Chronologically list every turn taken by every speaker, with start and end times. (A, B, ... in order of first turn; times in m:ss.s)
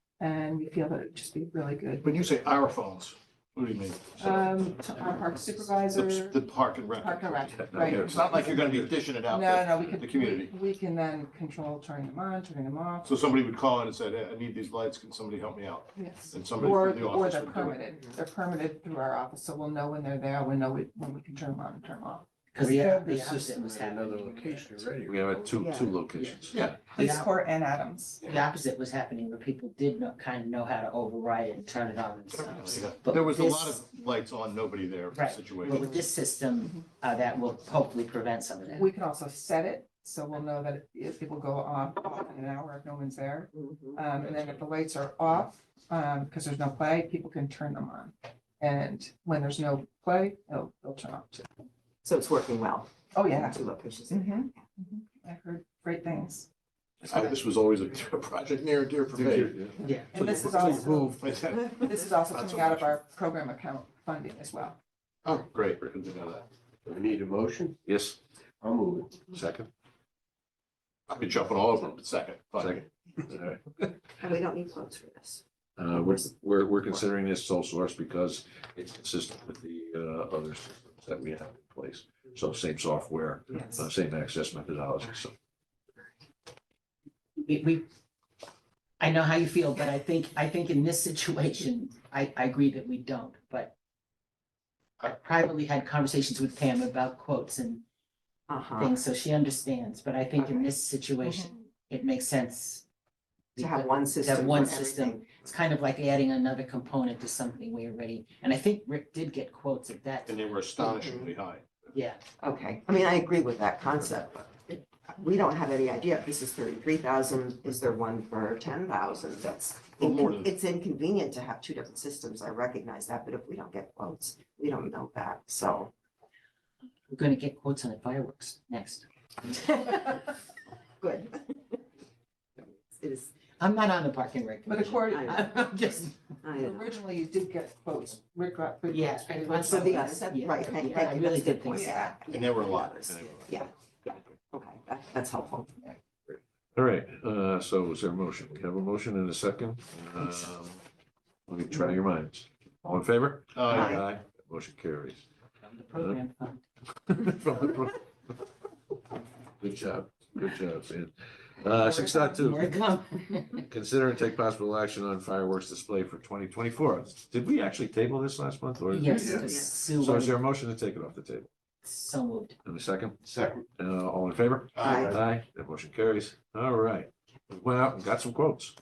0:00.2-0:02.2 A
0:02.0-0:04.5 B
0:04.2-0:06.4 A
0:05.9-0:10.5 B
0:07.0-0:08.6 A
0:07.5-0:09.0 C
0:09.3-0:13.2 A
0:13.0-0:17.8 B
0:15.9-0:22.3 A
0:22.5-0:24.8 D
0:22.6-0:25.8 E
0:25.0-0:27.0 C
0:25.5-0:26.0 F
0:26.7-0:28.3 A
0:27.0-0:27.3 D
0:28.3-0:33.9 D
0:32.3-0:36.0 B
0:35.1-0:38.9 D
0:35.6-0:36.1 F
0:36.6-0:36.9 A
0:38.7-0:51.5 A
0:43.5-0:44.0 F
0:44.2-0:44.6 C
0:52.0-0:54.6 F
0:53.1-0:53.6 A
0:54.1-0:56.5 A
0:57.0-0:57.4 A
0:57.1-1:03.0 B
0:59.4-0:59.8 C
0:59.8-1:00.2 D
1:00.1-1:04.8 A
1:05.2-1:06.4 B
1:06.8-1:07.8 E
1:07.8-1:08.2 C
1:08.6-1:09.3 E
1:09.3-1:09.7 C
1:11.1-1:12.8 B
1:12.6-1:13.9 C
1:14.2-1:16.2 F
1:15.8-1:25.3 C
1:23.5-1:23.9 F
1:27.4-1:27.9 D
1:29.0-1:33.7 D
1:35.0-1:37.8 D
1:38.5-1:39.0 F
1:38.8-1:42.8 D
1:40.4-1:40.7 F
1:41.2-1:41.5 A
1:43.6-1:45.3 F
1:43.6-1:50.3 D
1:50.3-1:51.9 B
1:50.8-1:51.4 F
1:51.9-1:52.2 D
1:52.4-2:05.9 F
2:00.0-2:00.5 B
2:07.1-2:09.0 D
2:09.5-2:10.2 F
2:11.0-2:11.8 F
2:12.6-2:13.4 F
2:13.6-2:16.1 D
2:14.7-2:20.2 A
2:16.4-2:16.9 F
2:18.9-2:22.2 D
2:19.6-2:25.7 F
2:21.7-2:22.2 A
2:22.3-2:23.0 B
2:23.0-2:24.2 C
2:26.3-2:30.8 C
2:31.5-2:35.2 C
2:33.5-2:34.0 B
2:33.7-2:34.0 F
2:35.7-2:36.6 D
2:36.0-2:36.2 C
2:37.1-2:38.0 C
2:39.6-2:42.8 C
2:41.8-2:43.6 D
2:43.7-2:51.5 C
2:48.9-2:50.3 D
2:49.1-2:49.5 E
2:51.8-2:52.6 D
2:52.6-2:53.2 C
2:53.3-2:53.6 E
2:53.8-2:58.7 C
2:54.8-2:55.1 B
2:54.8-2:55.1 F